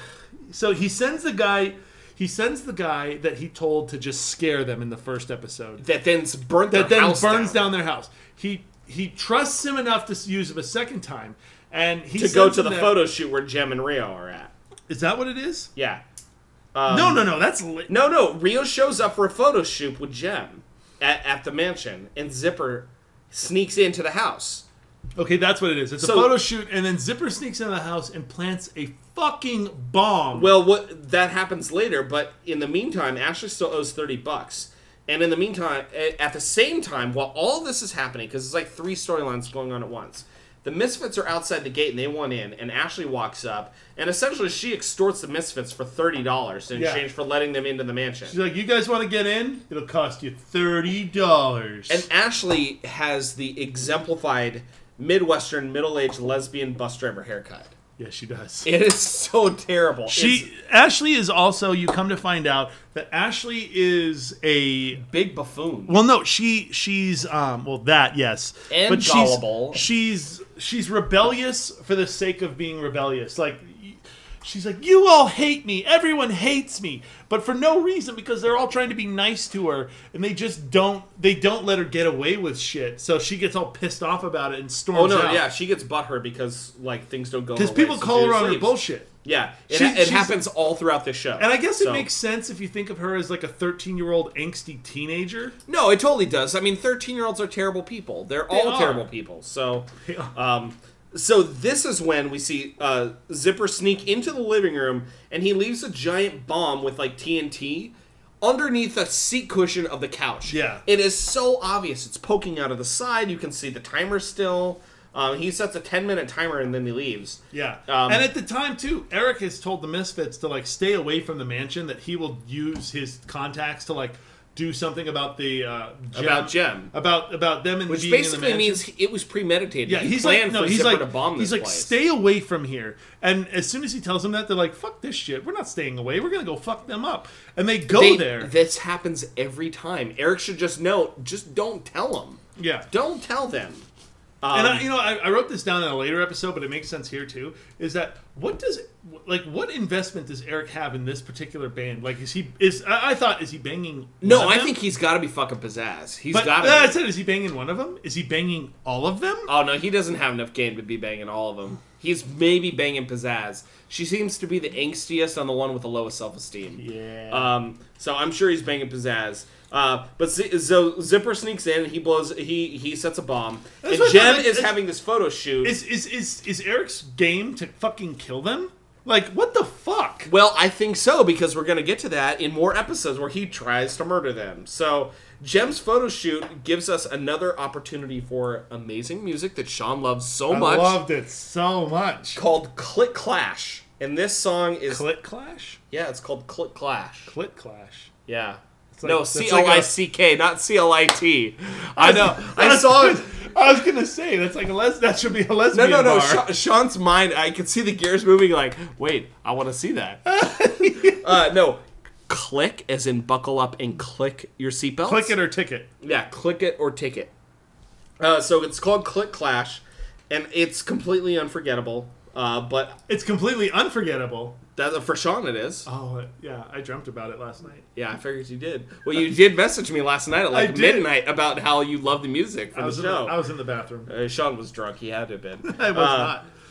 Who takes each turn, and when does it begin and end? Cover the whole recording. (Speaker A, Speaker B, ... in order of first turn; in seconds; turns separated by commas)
Speaker A: 0.5-5.8, Speaker B: 5.8-7.7, Speaker A: 6.7-13.0, Speaker B: 12.2-14.5, Speaker A: 14.9-15.7, Speaker B: 15.8-16.0, Speaker B: 16.7-17.3, Speaker A: 16.9-17.9, Speaker B: 17.9-24.6, Speaker A: 25.2-30.6, Speaker B: 26.0-26.4, Speaker B: 30.3-48.4, Speaker A: 46.8-47.0, Speaker A: 48.3-52.1, Speaker B: 51.9-57.7, Speaker A: 58.0-58.7, Speaker B: 58.6-60.5, Speaker A: 60.1-65.1, Speaker B: 65.1-66.0, Speaker A: 65.9-85.5, Speaker B: 68.7-69.8, Speaker B: 84.9-92.1, Speaker A: 87.5-89.1, Speaker A: 89.7-90.4, Speaker A: 91.4-95.6, Speaker B: 95.7-118.3, Speaker A: 98.5-99.1, Speaker A: 100.0-100.3, Speaker A: 110.5-110.8, Speaker A: 117.5-128.8, Speaker B: 126.1-126.9, Speaker B: 127.9-131.9, Speaker A: 129.9-138.5, Speaker B: 137.9-143.9, Speaker A: 142.6-142.9, Speaker B: 144.4-144.8, Speaker A: 144.5-154.8, Speaker B: 154.2-157.0, Speaker A: 156.3-159.5, Speaker B: 159.5-175.8, Speaker A: 166.8-167.5, Speaker A: 173.8-174.8, Speaker A: 175.6-180.3, Speaker B: 180.3-191.0, Speaker A: 190.5-192.4, Speaker B: 192.3-195.0, Speaker A: 194.9-195.8, Speaker B: 195.9-197.3, Speaker A: 197.3-198.1, Speaker B: 198.3-203.3, Speaker A: 198.9-199.9, Speaker A: 202.0-206.5, Speaker B: 205.7-210.3, Speaker A: 210.3-211.3, Speaker B: 210.8-215.3, Speaker A: 215.1-215.9, Speaker B: 216.0-217.3, Speaker B: 218.2-223.0, Speaker A: 223.1-224.6, Speaker B: 224.8-225.9, Speaker A: 225.9-227.9, Speaker B: 227.9-233.3, Speaker A: 230.5-231.1, Speaker A: 232.8-234.1, Speaker B: 234.1-236.3, Speaker A: 235.7-236.5